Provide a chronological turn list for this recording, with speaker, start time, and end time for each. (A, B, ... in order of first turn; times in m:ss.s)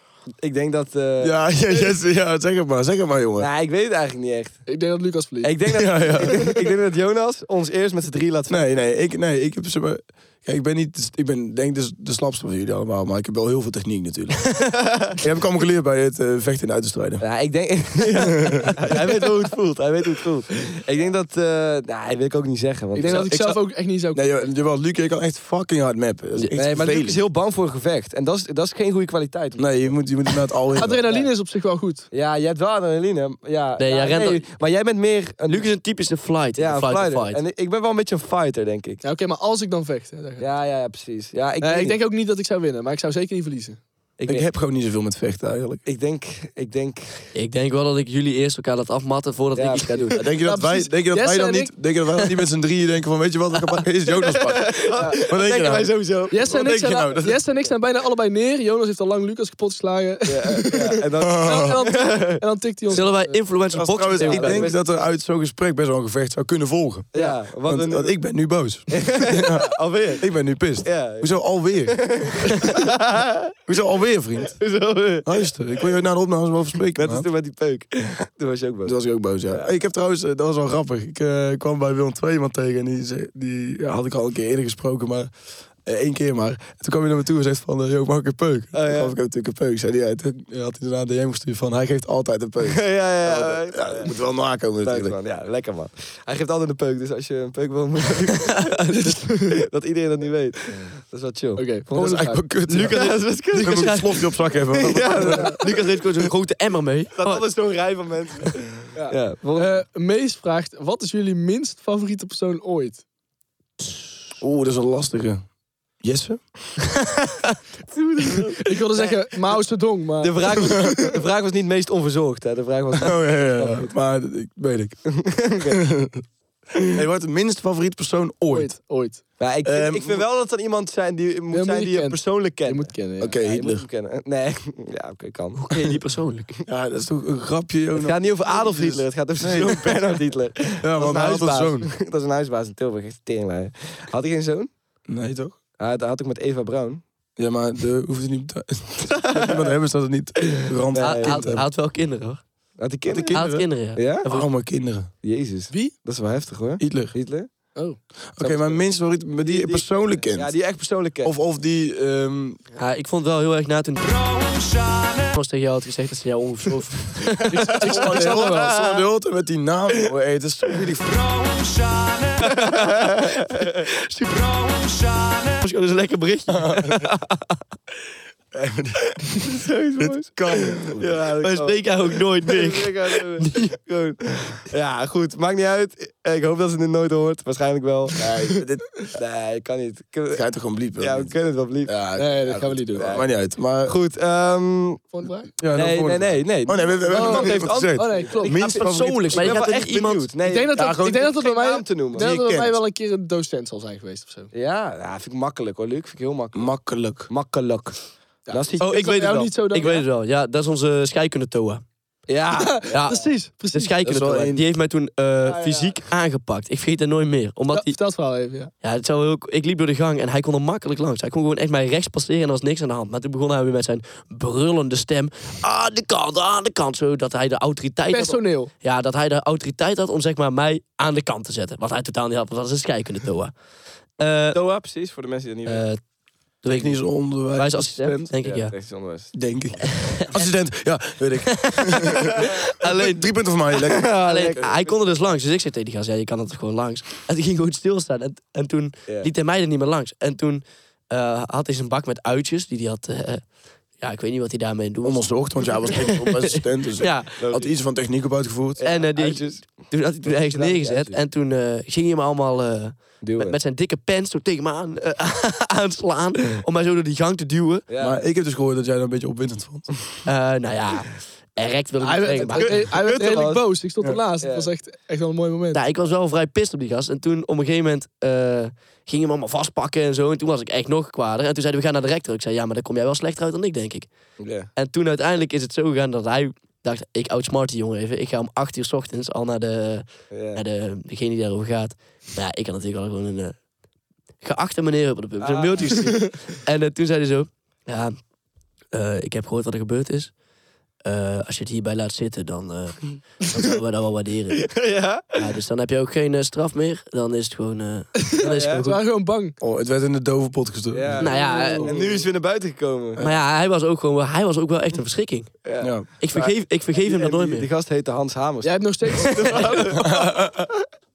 0:00.4-0:01.5 A
0:01.2-0:03.5 B
0:03.4-0:04.8 A
0:04.6-0:05.5 C
0:05.4-0:08.6 A
0:05.6-0:06.5 B
0:08.5-0:17.2 B
0:17.2-0:23.3 A
0:18.1-0:18.8 B
0:22.9-0:24.5 C
0:23.0-0:23.5 D
0:24.1-0:27.2 B
0:26.5-0:30.1 A
0:29.6-0:31.0 B
0:30.7-0:31.3 A
0:30.7-0:32.1 C
0:32.1-0:35.7 A
0:33.8-0:34.4 D
0:35.5-0:37.4 D
0:36.6-0:39.0 A
0:39.0-0:40.4 C
0:40.4-0:42.0 A
0:41.6-0:43.8 C
0:44.2-0:44.4 A
0:44.3-0:45.8 B
0:45.8-0:47.3 A
0:47.3-0:50.2 D
0:49.6-0:50.2 A
0:50.1-0:57.4 B
0:50.4-0:51.8 C
0:54.1-0:56.4 A
0:56.3-1:03.4 C
1:00.2-1:02.4 A
1:01.2-1:01.8 B
1:02.9-1:04.7 D
1:03.7-1:12.5 B
1:04.2-1:04.8 A
1:07.1-1:08.2 A
1:08.9-1:10.2 A
1:10.8-1:13.5 A
1:13.6-1:14.6 B
1:14.5-1:15.5 A
1:15.2-1:17.3 B
1:17.0-1:19.0 A
1:18.8-1:25.3 B
1:25.8-1:35.2 B
1:28.7-1:29.1 A
1:32.6-1:34.1 A
1:34.8-1:41.8 A
1:38.5-1:39.1 D
1:38.9-1:39.6 C
1:41.6-1:42.4 C
1:41.9-1:45.6 B
1:42.7-1:44.3 D
1:42.7-1:46.3 A
1:45.2-1:47.5 D
1:47.2-1:49.7 A
1:48.9-1:53.0 C
1:54.4-1:55.4 B
1:56.0-1:56.4 B
1:56.9-1:57.5 D
1:57.9-1:59.6 A
1:58.5-2:00.9 C
2:00.2-2:03.8 A
2:02.9-2:06.2 B
2:05.2-2:05.8 A
2:06.9-2:08.7 B
2:08.5-2:09.2 C
2:09.4-2:15.8 A
2:09.6-2:10.2 B
2:11.5-2:13.4 C
2:13.2-2:13.8 B
2:15.6-2:16.5 D
2:16.7-2:20.0 B
2:18.0-2:24.7 A
2:20.8-2:21.9 B
2:25.1-2:25.6 B
2:25.8-2:27.0 A
2:27.4-2:31.6 B
2:29.1-2:29.7 A
2:30.5-2:31.6 A
2:31.0-2:32.4 D
2:32.8-2:34.2 A
2:33.0-2:35.1 B
2:33.3-2:34.5 D
2:35.2-2:37.5 A
2:36.8-2:37.1 B
2:38.3-2:40.6 B
2:38.4-2:38.8 A
2:39.4-2:41.3 A
2:41.2-2:42.6 B
2:42.8-2:48.0 D
2:47.5-2:48.7 C
2:47.7-2:51.2 B
2:52.4-2:53.8 A
2:53.8-2:57.5 D
2:56.5-2:57.0 B
2:58.5-2:59.1 B
2:59.3-3:08.6 A
3:00.0-3:01.1 B
3:01.4-3:03.7 D
3:08.2-3:08.8 B
3:09.1-3:10.4 A
3:10.3-3:11.3 B
3:11.0-3:11.9 A
3:11.9-3:13.9 B
3:12.2-3:13.1 C
3:13.0-3:15.0 A
3:15.1-3:15.5 C
3:15.6-3:19.6 B
3:15.7-3:22.3 A
3:17.1-3:18.6 C
3:18.7-3:20.3 D
3:20.4-3:24.5 C
3:20.7-3:21.3 B
3:22.1-3:22.8 B
3:24.5-3:26.7 A
3:26.5-3:27.3 B
3:27.3-3:29.5 A
3:28.4-3:30.0 C
3:28.8-3:31.8 D
3:32.3-3:32.9 A
3:32.6-3:33.9 C
3:32.9-3:38.0 D
3:34.0-3:34.6 B
3:35.4-3:35.9 C
3:37.7-3:38.7 C
3:38.8-3:53.5 D
3:48.1-3:48.7 C
3:54.2-3:54.6 D
3:54.5-3:55.8 A
3:55.6-3:56.0 D
3:56.6-3:58.7 D
3:56.7-3:58.3 B
3:58.4-3:59.9 A
3:59.3-4:04.6 B
3:59.8-4:00.4 D
4:01.5-4:13.4 D
4:03.8-4:05.3 A
4:14.0-4:17.5 D
4:15.0-4:18.8 B
4:17.4-4:17.7 A
4:18.8-4:21.2 A
4:18.8-4:27.8 D
4:23.2-4:23.6 A
4:27.9-4:28.2 A
4:28.0-4:29.9 B
4:30.2-4:32.9 D
4:32.0-4:35.8 C
4:32.5-4:33.7 A
4:34.4-4:34.7 A
4:35.7-4:44.1 D
4:44.4-4:44.7 A
4:44.7-4:53.6 D
4:50.3-4:50.6 A
4:54.4-4:58.2 D
4:55.4-4:56.1 A
4:58.9-5:00.3 D
5:01.0-5:04.8 D
5:04.6-5:05.4 A
5:05.3-5:09.0 D
5:08.2-5:09.6 C
5:08.4-5:08.8 A
5:09.6-5:11.2 B
5:10.9-5:13.2 A
5:11.2-5:12.0 D
5:11.2-5:12.2 C
5:13.2-5:15.6 D
5:15.6-5:20.8 A
5:15.8-5:16.1 B
5:16.1-5:17.7 D
5:18.6-5:19.6 C
5:19.9-5:20.6 B